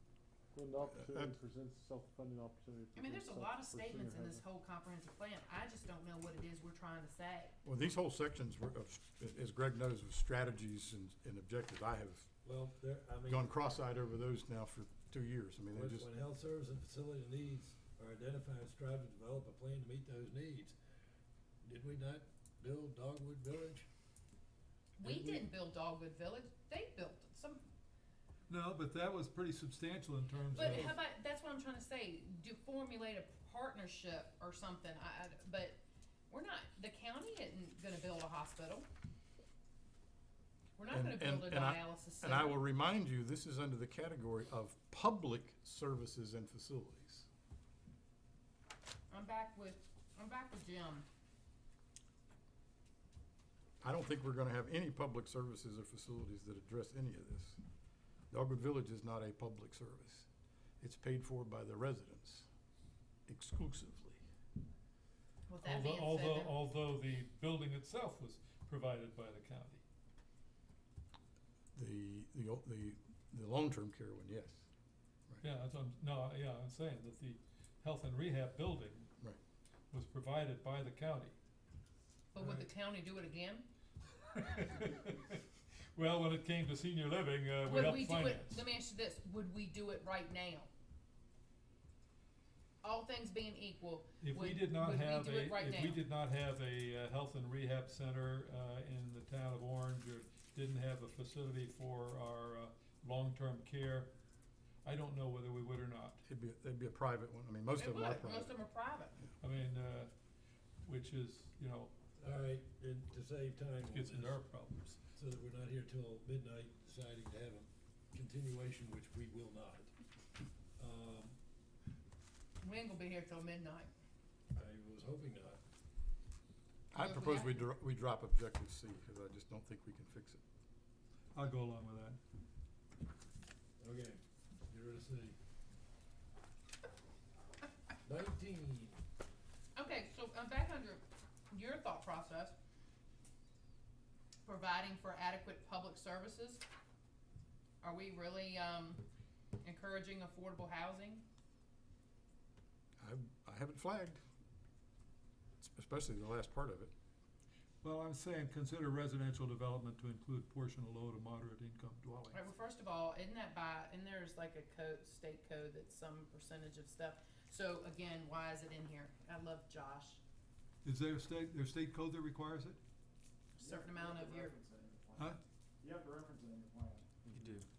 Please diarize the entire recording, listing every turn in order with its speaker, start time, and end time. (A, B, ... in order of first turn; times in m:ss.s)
0:00.5-0:04.4 A
0:00.9-0:01.3 B
0:02.9-0:07.5 C
0:07.6-0:12.3 B
0:12.4-0:13.8 D
0:13.3-0:16.1 B
0:15.7-0:20.7 D
0:21.6-0:23.8 D
0:25.0-0:27.7 C
0:25.0-0:25.4 D
0:28.5-0:30.9 E
0:30.5-0:31.0 D
0:30.6-0:38.9 C
0:40.8-0:42.6 C
0:40.9-0:47.3 B
0:49.1-0:51.0 C
0:53.8-0:57.6 B
0:58.3-1:00.3 B
1:00.8-1:02.5 B
1:03.3-1:04.2 B
1:05.5-1:06.6 C
1:05.6-1:09.8 E
1:11.7-1:14.6 B
1:15.4-1:19.1 E
1:19.9-1:21.4 E
1:22.3-1:23.7 C
1:22.4-1:22.7 E
1:24.2-1:28.6 E
1:27.6-1:30.7 C
1:32.8-1:36.0 C
1:34.2-1:44.1 E
1:44.8-1:46.2 E
1:46.2-1:48.5 B
1:47.8-1:49.2 C
1:49.4-1:50.1 E
1:50.8-1:51.9 E
1:52.2-1:54.4 D
1:53.8-1:55.0 E
1:55.2-1:59.9 D
2:00.8-2:01.4 D
2:02.6-2:03.9 C
2:04.5-2:05.6 D
2:06.9-2:07.6 C
2:06.9-2:10.4 B
2:11.3-2:12.2 E
2:13.8-2:15.4 D
2:18.0-2:19.0 D
2:19.8-2:22.5 C
2:24.4-2:26.6 C
2:27.8-2:29.0 C
2:29.6-2:31.2 C
2:33.0-2:34.2 B
2:35.6-2:36.9 B
2:37.8-2:42.4 E
2:42.3-2:50.2 C
2:50.8-2:52.8 E
2:53.6-2:54.5 C
2:53.6-2:55.3 A
2:55.8-2:57.3 A
2:57.3-2:57.7 E